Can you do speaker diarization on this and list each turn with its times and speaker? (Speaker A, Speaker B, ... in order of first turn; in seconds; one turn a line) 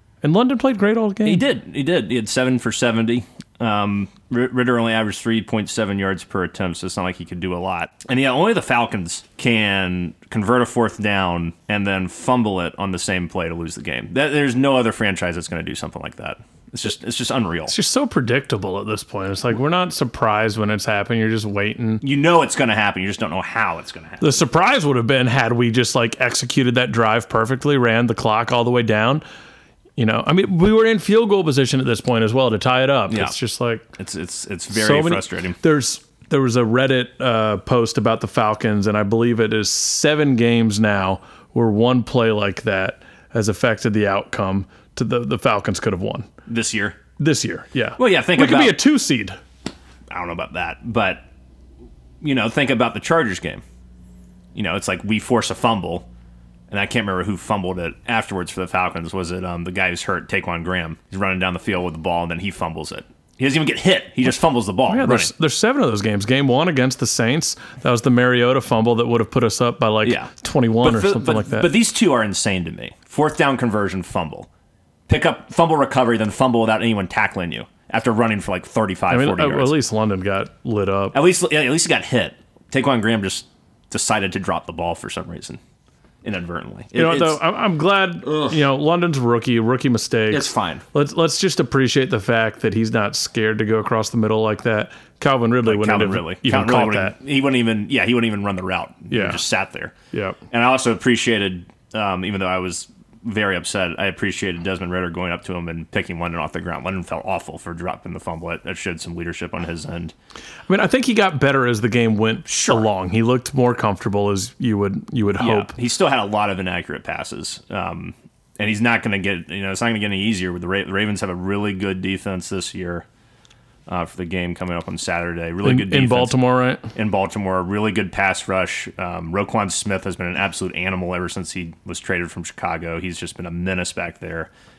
Speaker A: 0.2-1.4
Speaker B: 1.2-17.7
Speaker A: 17.7-22.0
Speaker B: 22.0-24.4
Speaker A: 24.2-29.2
Speaker A: 30.0-33.9
Speaker B: 34.0-35.6
Speaker A: 34.7-46.3
Speaker B: 46.5-47.0
Speaker A: 47.2-49.4
Speaker B: 48.0-48.8
Speaker B: 50.1-51.2
Speaker B: 52.2-53.6
Speaker B: 54.5-56.0
Speaker B: 56.7-65.3
Speaker A: 64.9-71.7
Speaker B: 70.0-74.5
Speaker B: 75.1-79.7
Speaker A: 79.1-81.2
Speaker B: 81.1-85.6
Speaker B: 86.2-87.4
Speaker A: 86.9-97.2
Speaker B: 88.2-88.6
Speaker B: 90.3-90.8
Speaker B: 95.6-99.9
Speaker A: 99.1-99.4
Speaker A: 100.1-100.4
Speaker B: 100.5-110.1
Speaker A: 110.7-115.7
Speaker B: 112.5-112.9
Speaker B: 115.4-123.0
Speaker B: 123.9-126.4
Speaker A: 125.6-126.9
Speaker B: 126.9-134.5